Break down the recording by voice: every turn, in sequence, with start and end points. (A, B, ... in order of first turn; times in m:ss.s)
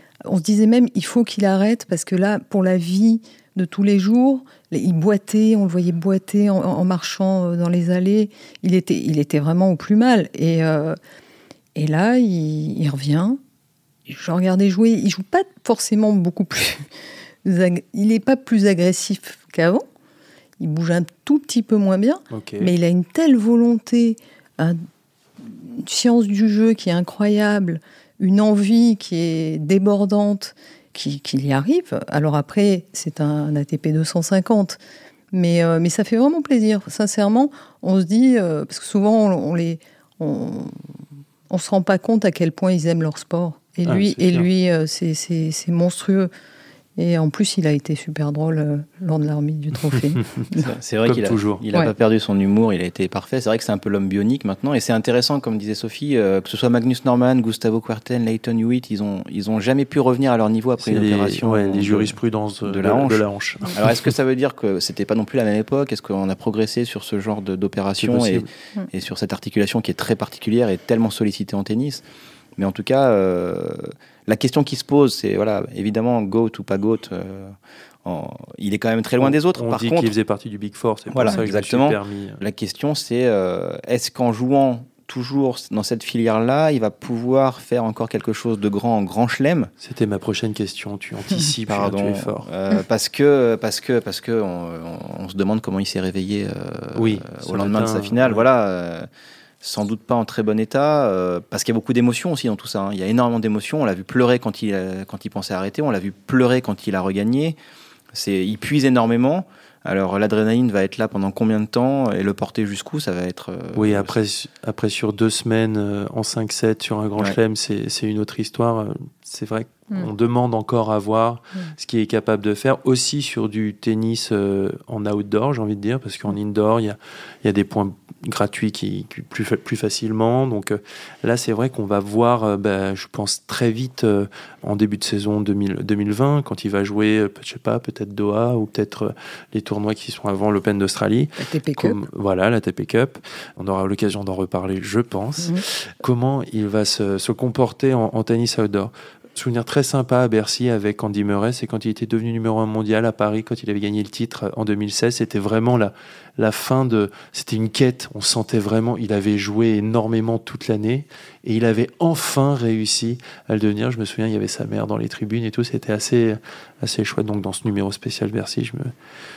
0:00.2-0:11.0 A
0:11.8-0:13.4 A
0:14.1-0:16.9 A
0:17.4-0:19.8 A
0:20.6-0:24.8 A
0:22.3-0:22.7 B
0:25.4-0:34.8 A
0:35.3-0:40.8 A
0:41.5-0:46.3 A
0:43.9-0:44.5 B
0:47.0-0:50.7 A
0:50.6-1:12.0 C
0:51.0-0:51.6 B
1:00.8-1:04.0 B
1:08.0-1:08.5 B
1:12.6-1:20.2 C
1:19.2-1:22.4 B
1:21.1-1:29.7 C
1:29.8-1:32.5 B
1:31.7-1:39.1 C
1:37.0-1:38.4 B
1:39.6-1:47.6 C
1:48.1-1:54.2 C
1:53.8-2:48.9 B
2:21.4-2:22.0 A